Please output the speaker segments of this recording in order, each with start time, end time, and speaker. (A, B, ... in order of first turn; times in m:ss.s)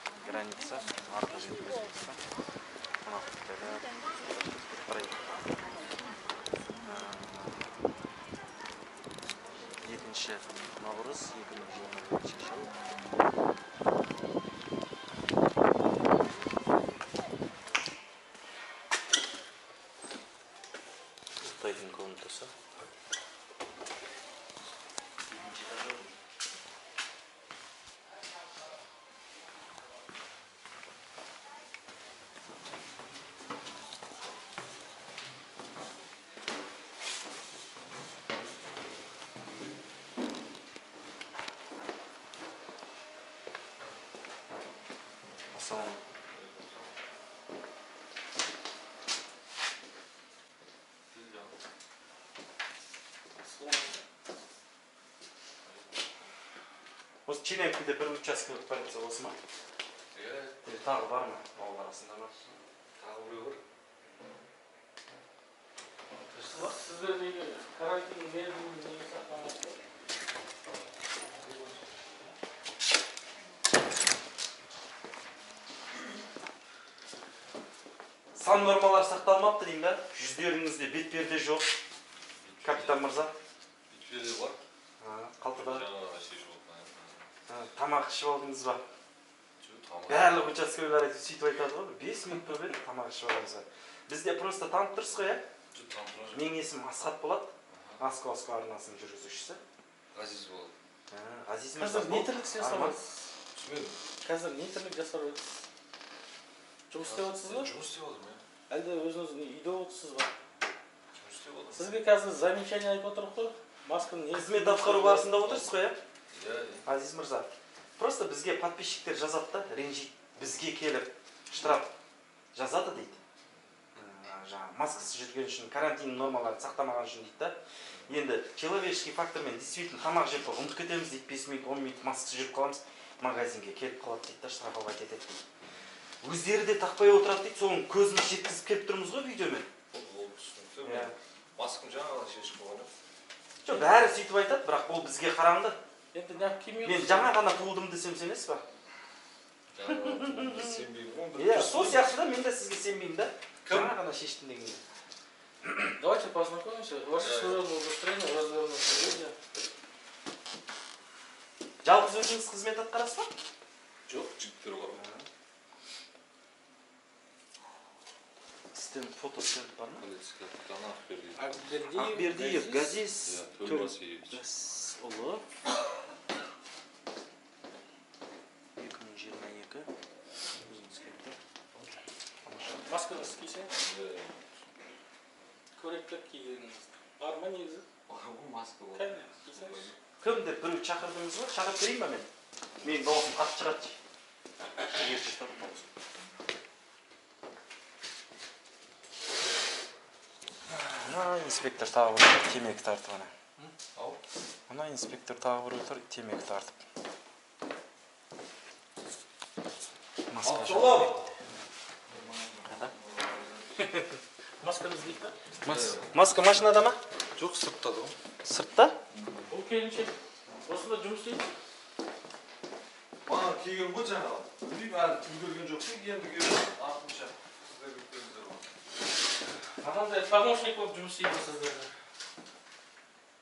0:00.2-0:02.2 A
0:03.0-0:05.4 A
0:06.8-0:07.6 A
0:09.8-0:12.7 A
0:21.4-0:22.5 A
0:25.3-0:26.0 A
0:45.5-0:46.0 A
0:46.3-0:46.9 B
0:51.1-0:51.6 B
0:53.4-0:54.0 C
0:55.6-0:56.1 B
0:57.3-0:59.4 A
1:00.1-1:00.6 B
1:00.6-1:02.4 A
1:03.0-1:03.6 B
1:06.3-1:09.8 C
1:18.3-1:21.7 A
1:22.4-1:23.0 B
1:22.6-1:23.3 A
1:23.9-1:24.6 B
1:25.0-1:25.9 A
1:25.5-1:27.3 B
1:27.5-1:28.8 A
1:29.6-1:30.5 B
1:30.1-1:35.5 A
1:35.7-1:36.5 B
1:36.3-1:39.6 A
1:37.7-1:38.0 B
1:40.1-1:40.7 B
1:41.1-1:43.0 A
1:41.8-1:43.3 C
1:43.5-1:44.0 B
1:44.2-1:45.6 C
1:46.9-1:47.7 C
1:47.0-1:48.4 B
1:48.7-1:50.3 C
1:51.1-1:51.9 B
1:51.8-1:55.5 C
1:54.3-1:56.0 A
1:56.3-1:56.8 B
1:56.8-2:01.9 A
2:02.6-2:03.2 A
2:04.0-2:15.4 A
2:16.2-2:19.7 A
2:19.9-2:22.9 B
2:20.8-2:21.1 A
2:23.6-2:25.8 A
2:26.1-2:27.3 C
2:26.8-2:28.6 A
2:29.7-2:32.1 B
2:29.9-2:30.8 A
2:31.4-2:34.8 A
2:36.0-2:39.4 C
2:37.2-2:37.6 B
2:41.8-2:43.3 A
2:44.1-2:45.0 B
2:44.9-2:45.3 A
2:48.7-2:50.1 A
2:50.0-2:51.5 B
2:51.4-2:53.0 C
2:52.0-2:55.4 A
2:53.2-2:54.4 B
2:58.8-2:59.9 A
3:00.7-3:01.9 A
3:02.4-3:02.9 A
3:02.9-3:03.7 C
3:03.8-3:04.6 B
3:05.8-3:07.9 C
3:08.1-3:10.0 B
3:08.9-3:10.0 C
3:10.2-3:12.3 A
3:12.8-3:14.0 A
3:14.9-3:15.8 A
3:21.0-3:23.3 A
3:24.0-3:24.2 B
3:24.7-3:26.8 A
3:30.3-3:31.1 A
3:30.4-3:31.3 B
3:32.1-3:33.9 B
3:32.7-3:32.9 A
3:34.6-3:35.3 C
3:35.6-3:37.0 A
3:35.7-3:36.2 B
3:37.4-3:38.2 B
3:38.4-3:39.0 A
3:39.2-3:39.4 B
3:39.5-3:40.1 C
3:40.7-3:41.5 C
3:43.2-3:48.7 B
3:49.8-3:51.9 C